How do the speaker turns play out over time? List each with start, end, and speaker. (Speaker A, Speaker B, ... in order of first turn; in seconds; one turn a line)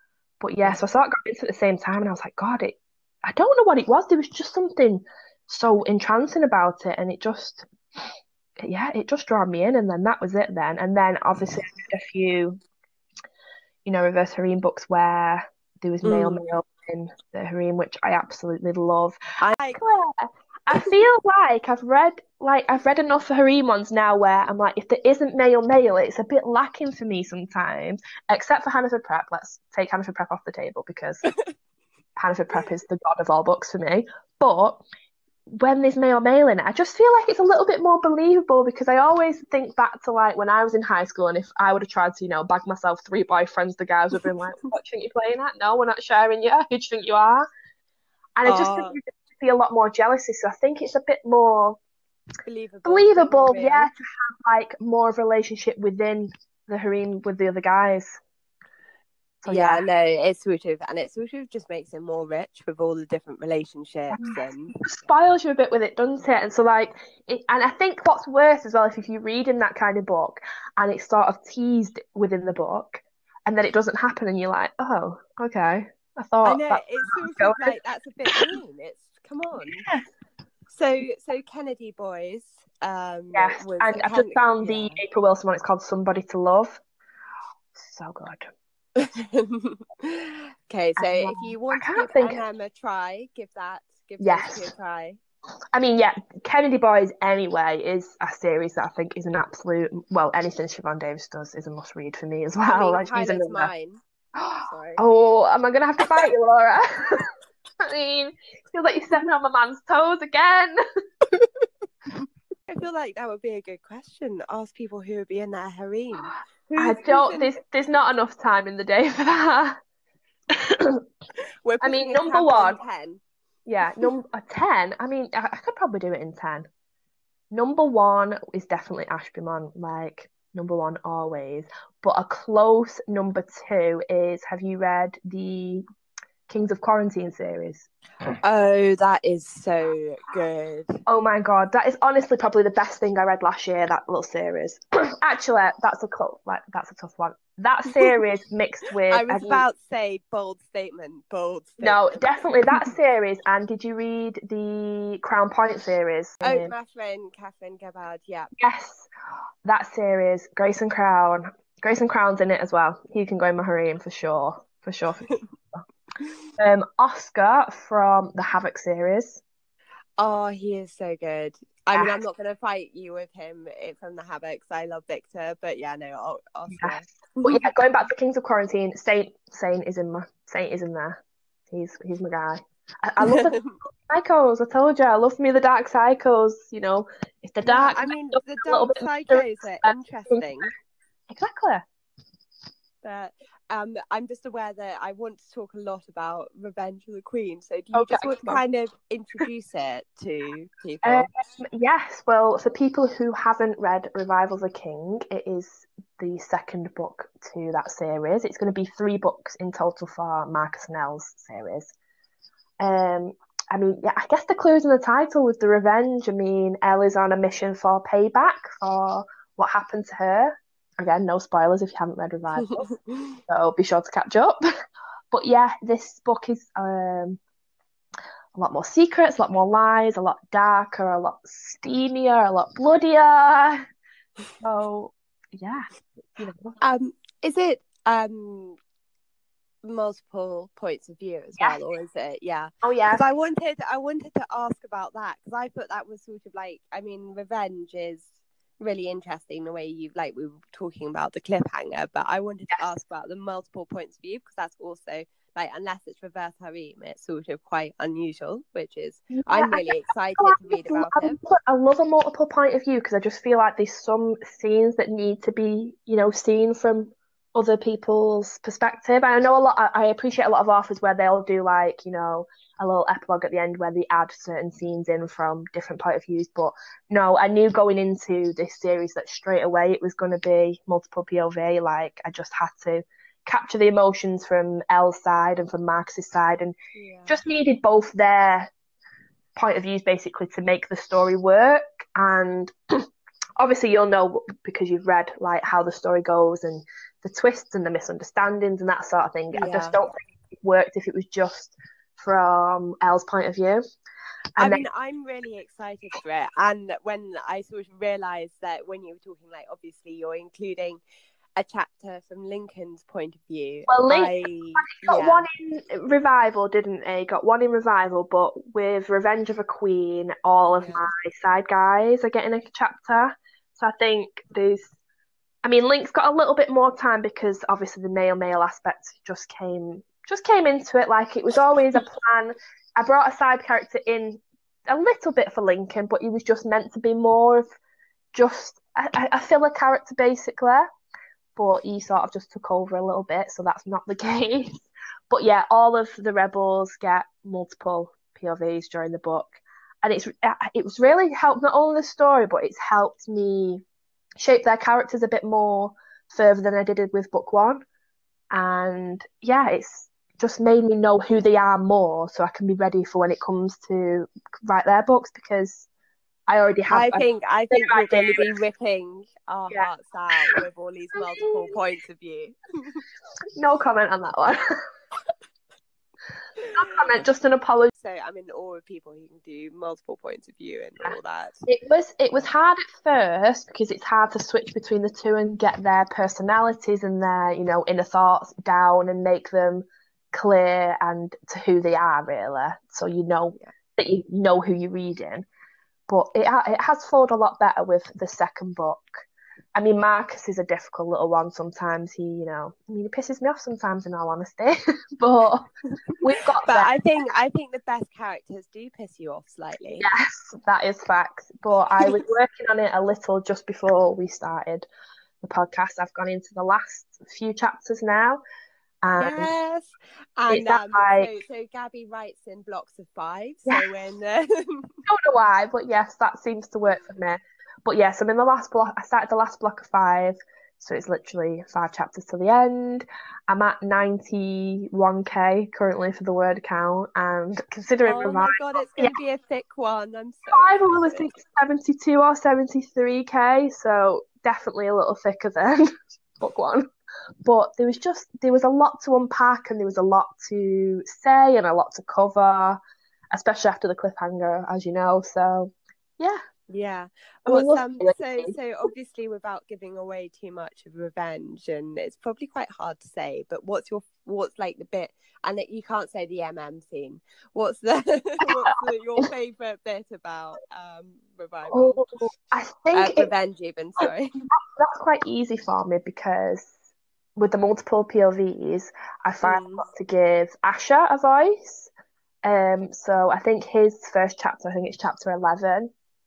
Speaker A: 0.4-8.0
Speaker A: 8.6-12.6
Speaker A: 13.8-19.1
Speaker B: 16.0-16.4
Speaker B: 19.4-19.8
Speaker A: 19.8-31.2
Speaker B: 31.2-31.5
Speaker A: 32.1-34.8
Speaker A: 35.5-47.5
Speaker A: 48.4-51.8
Speaker B: 48.4-49.0
Speaker B: 52.5-53.9
Speaker A: 52.8-58.2
Speaker A: 59.4-59.8
Speaker B: 59.5-64.8
Speaker A: 64.1-77.7
Speaker B: 76.4-79.8
Speaker A: 79.6-80.0
Speaker B: 80.7-85.0
Speaker A: 83.3-86.8
Speaker A: 87.8-88.5
Speaker B: 89.0-95.2
Speaker A: 91.0-92.4
Speaker A: 94.2-94.7
Speaker A: 95.7-103.7
Speaker B: 102.7-104.0
Speaker A: 104.4-107.3
Speaker B: 104.6-105.0
Speaker A: 107.8-110.8
Speaker B: 112.2-117.5
Speaker A: 116.8-119.8
Speaker A: 120.5-121.0
Speaker B: 121.6-123.2
Speaker A: 121.8-122.8
Speaker A: 123.7-126.7
Speaker A: 127.5-135.8
Speaker A: 136.5-137.9
Speaker B: 138.4-141.0
Speaker A: 141.1-149.6
Speaker B: 147.9-148.2
Speaker B: 149.1-152.2
Speaker A: 151.8-156.7
Speaker B: 156.4-158.5
Speaker A: 158.6-159.1
Speaker A: 159.6-165.8
Speaker A: 166.6-169.4
Speaker B: 170.2-177.7
Speaker A: 171.9-172.2
Speaker A: 176.7-181.2
Speaker A: 181.7-190.4
Speaker B: 183.2-183.8
Speaker B: 187.6-190.7
Speaker A: 191.3-191.8
Speaker B: 193.0-201.3
Speaker A: 197.9-198.6
Speaker A: 201.0-211.9
Speaker A: 212.8-222.9
Speaker B: 222.6-223.4
Speaker A: 223.5-224.6
Speaker A: 225.3-227.4
Speaker A: 228.5-233.8
Speaker A: 234.6-236.8
Speaker B: 236.8-238.8
Speaker B: 239.8-261.4
Speaker A: 242.8-243.2
Speaker A: 259.4-286.7
Speaker B: 286.9-287.4
Speaker A: 287.3-288.7
Speaker A: 289.6-293.0
Speaker A: 293.6-303.8
Speaker B: 299.5-300.0
Speaker A: 304.6-304.8
Speaker B: 304.6-311.0
Speaker B: 311.6-315.4
Speaker A: 313.9-324.9
Speaker B: 320.7-321.1
Speaker A: 325.6-337.6
Speaker A: 338.3-340.9
Speaker A: 341.6-353.8
Speaker A: 354.4-357.8
Speaker A: 358.5-365.9
Speaker A: 366.5-368.5
Speaker B: 366.9-373.0
Speaker A: 371.1-371.7
Speaker A: 373.6-374.6
Speaker B: 376.6-376.8
Speaker A: 376.7-377.9
Speaker B: 377.9-381.6
Speaker A: 381.6-395.4
Speaker A: 396.1-405.7
Speaker B: 406.1-410.1
Speaker A: 406.2-406.9
Speaker A: 410.0-414.9
Speaker A: 415.4-418.4
Speaker A: 419.0-419.5
Speaker B: 419.2-425.0
Speaker A: 420.5-421.3
Speaker A: 425.1-439.1
Speaker B: 438.1-441.3
Speaker A: 440.5-445.8
Speaker A: 446.4-446.9
Speaker A: 447.4-452.8
Speaker A: 453.3-456.4
Speaker B: 456.7-472.0
Speaker A: 457.4-458.6
Speaker A: 468.7-469.2
Speaker A: 471.7-473.3
Speaker B: 472.9-474.3
Speaker A: 474.6-476.7
Speaker A: 477.4-481.9
Speaker B: 479.4-479.9
Speaker A: 482.4-485.9